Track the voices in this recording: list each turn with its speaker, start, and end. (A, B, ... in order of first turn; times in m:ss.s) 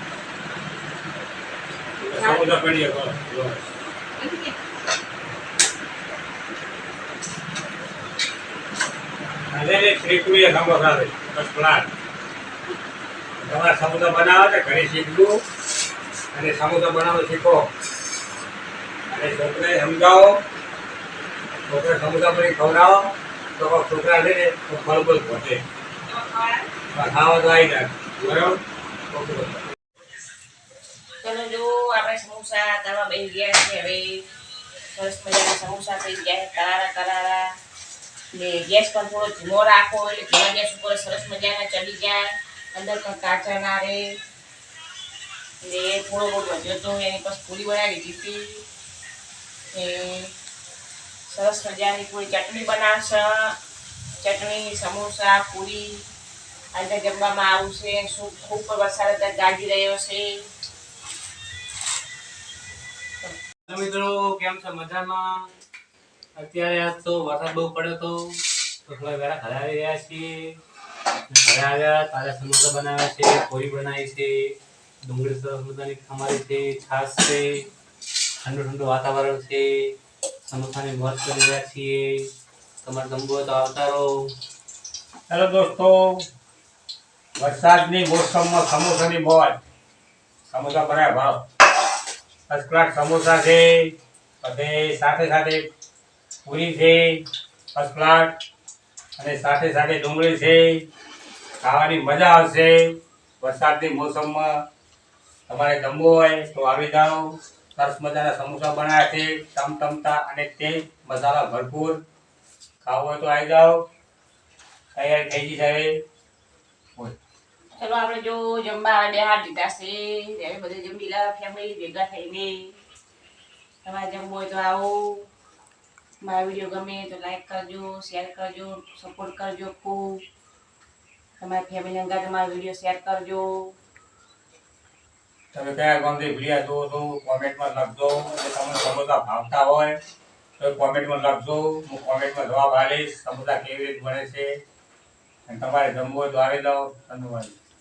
0:02.0-0:02.5 A
0:02.1-0:03.6 B
0:04.2-0:04.6 A
0:09.5-0:11.9 B
0:13.4-0:15.4 B
0:16.3-0:17.6 B
0:19.1-0:20.4 B
0:21.7-0:25.6 B
0:26.1-0:26.7 A
0:26.9-0:29.6 B
0:31.2-0:34.3 A
0:34.9-0:37.5 A
0:38.3-0:44.0 A
0:45.6-0:48.6 A
0:49.7-0:50.3 A
0:51.3-0:53.5 A
0:54.2-0:56.1 A
0:56.7-1:00.3 A
1:03.7-1:05.4 C
1:06.4-1:10.6 C
1:11.3-1:14.5 C
1:15.0-1:17.6 C
1:18.4-1:22.3 C
1:22.8-1:24.1 C
1:25.3-1:26.2 B
1:27.4-1:29.6 B
1:30.5-1:31.4 B
1:32.5-1:35.6 B
1:36.4-1:37.2 B
1:37.7-1:38.3 B
1:39.2-1:40.9 B
1:41.6-1:42.8 B
1:43.4-1:44.5 B
1:45.5-1:52.0 B
1:52.8-1:53.8 B
1:55.0-1:55.9 B
1:57.8-2:02.8 A
2:03.8-2:05.3 A
2:06.2-2:10.2 A
2:11.4-2:13.7 A
2:15.5-2:20.0 B
2:20.6-2:24.5 B
2:25.5-2:27.6 B